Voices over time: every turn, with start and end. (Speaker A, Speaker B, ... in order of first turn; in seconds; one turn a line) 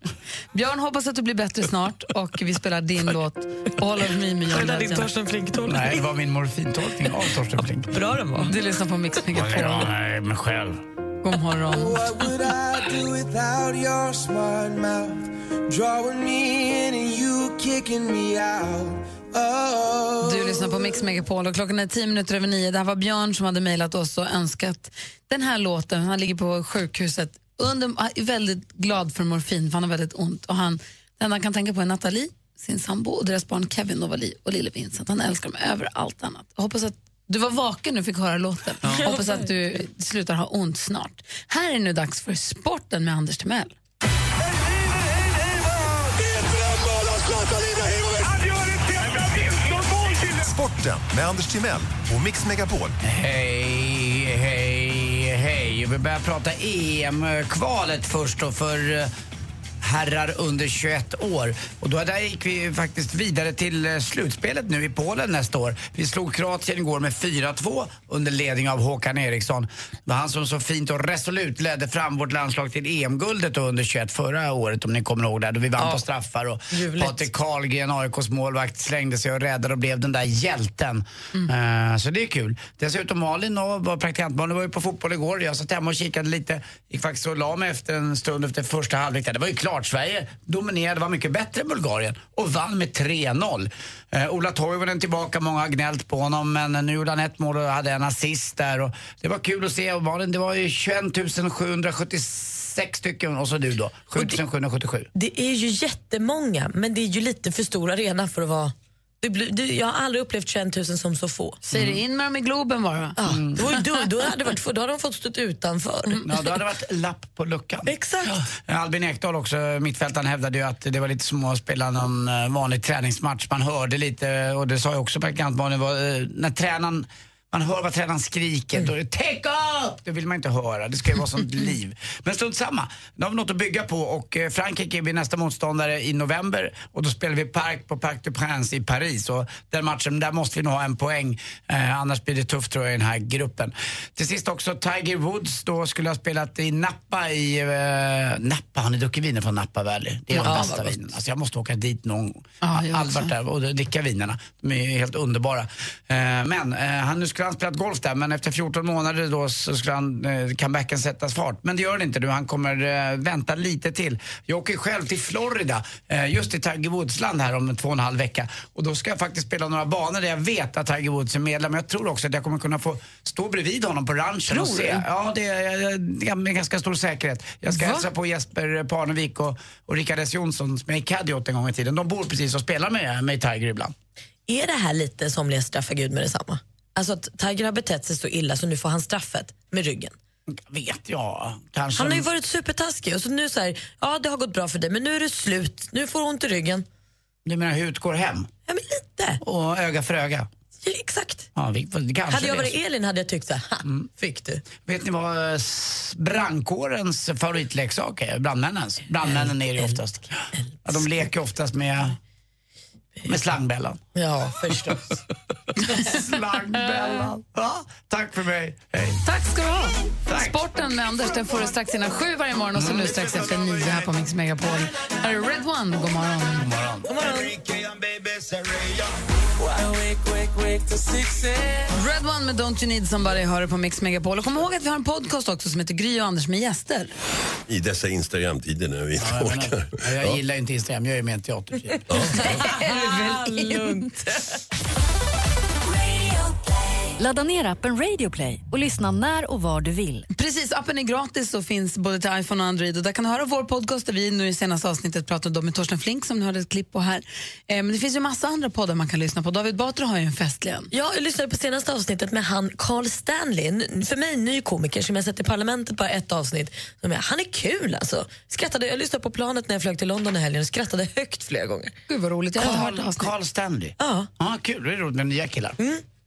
Speaker A: 0.5-5.1
Speaker B: 4.5-6.0
Speaker C: 5.7-8.0
Speaker B: 7.9-8.6
Speaker A: 8.4-9.9
Speaker C: 9.3-10.8
Speaker A: 11.2-12.1
Speaker D: 11.8-20.8
Speaker A: 20.2-43.7
Speaker E: 50.3-53.0
Speaker C: 53.0-59.1
Speaker C: 59.8-105.1
Speaker B: 75.8-76.0
Speaker B: 76.7-77.3
Speaker B: 105.1-111.7
Speaker A: 111.7-113.2
Speaker C: 111.7-112.0
Speaker B: 113.2-116.3
Speaker C: 113.3-113.6
Speaker C: 116.2-183.9
Speaker B: 117.8-118.4
Speaker A: 150.3-150.7
Speaker B: 150.4-151.1
Speaker A: 152.6-153.3
Speaker A: 174.5-175.0
Speaker A: 177.7-178.1
Speaker B: 184.5-190.1
Speaker C: 190.5-192.3
Speaker B: 192.0-196.8
Speaker C: 197.4-198.5
Speaker B: 198.7-199.4
Speaker C: 199.4-200.5
Speaker B: 200.8-201.5
Speaker C: 201.6-202.7
Speaker B: 202.3-204.6
Speaker C: 204.8-210.3
Speaker B: 209.3-210.0
Speaker B: 210.5-211.1
Speaker C: 210.8-212.2
Speaker C: 213.2-214.0
Speaker B: 214.1-215.2
Speaker C: 214.7-215.0
Speaker C: 215.9-219.2
Speaker A: 219.2-226.7
Speaker C: 220.3-220.6
Speaker C: 222.7-223.1
Speaker C: 226.6-227.1
Speaker B: 227.1-227.6
Speaker D: 227.7-229.0
Speaker A: 231.9-237.1
Speaker F: 237.7-240.4
Speaker C: 239.2-242.6
Speaker A: 242.3-244.2
Speaker G: 247.2-250.3
Speaker A: 250.3-260.9
Speaker B: 260.9-271.9
Speaker A: 272.1-273.3
Speaker C: 272.6-275.8
Speaker B: 274.0-274.3